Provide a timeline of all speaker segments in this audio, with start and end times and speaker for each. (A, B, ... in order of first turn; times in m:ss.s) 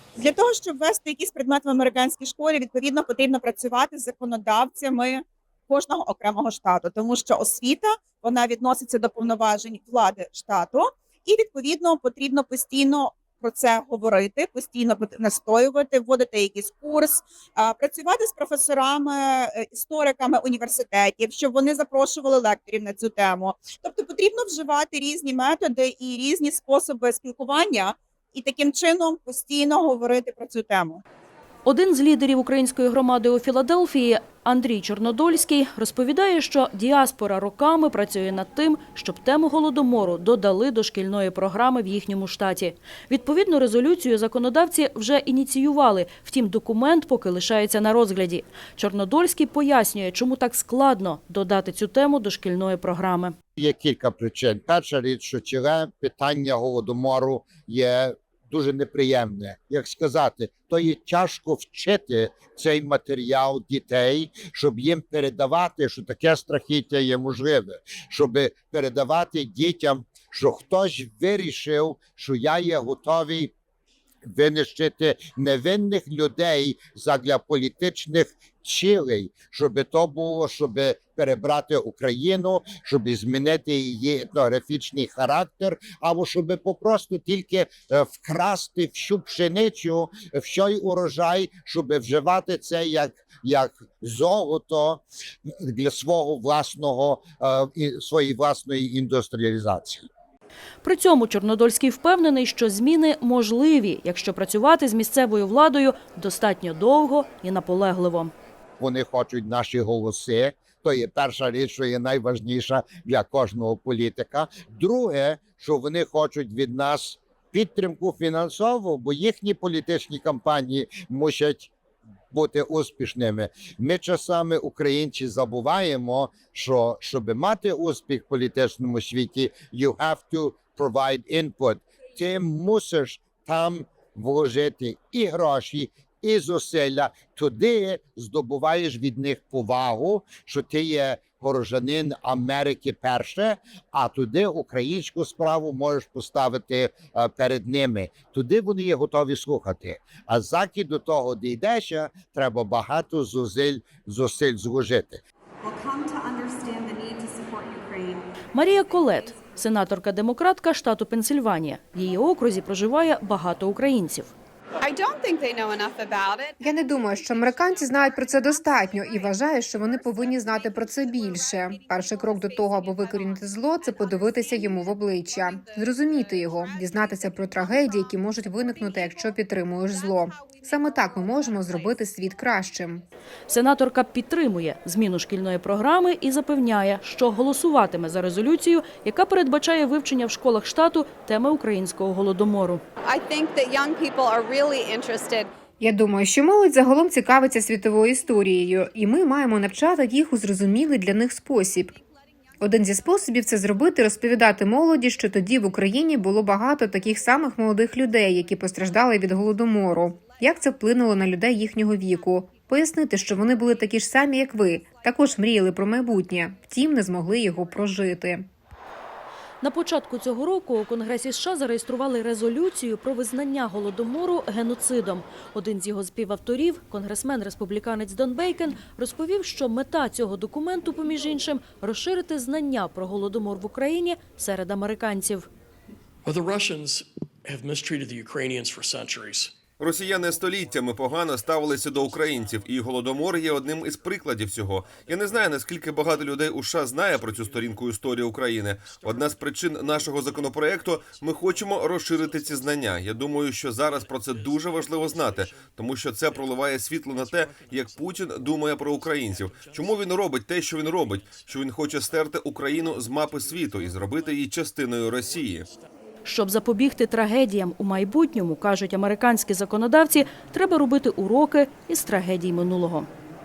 0:00.2-0:31.0 A
0:31.6-0:53.3 B
0:53.6-1:13.5 C
1:14.2-1:40.0 C
1:40.8-1:48.3 B
1:48.8-2:01.7 C
2:02.3-2:35.2 C
2:35.6-2:38.2 D
2:38.5-2:44.3 B
2:44.8-2:46.6 D
2:46.6-3:03.0 E
2:50.4-2:50.7 D
2:52.5-2:53.2 D
2:55.6-2:56.9 D
3:01.5-3:01.9 D
3:03.5-3:12.8 B
3:13.0-3:15.5 D
3:15.8-3:21.9 E
3:22.6-3:38.5 E
3:39.6-3:55.5 B
3:56.2-3:59.5 F
3:59.8-4:25.7 G
4:00.1-4:00.8 F
4:01.7-4:03.2 F
4:05.0-4:08.0 F
4:08.8-4:25.9 F
4:26.2-4:33.1 B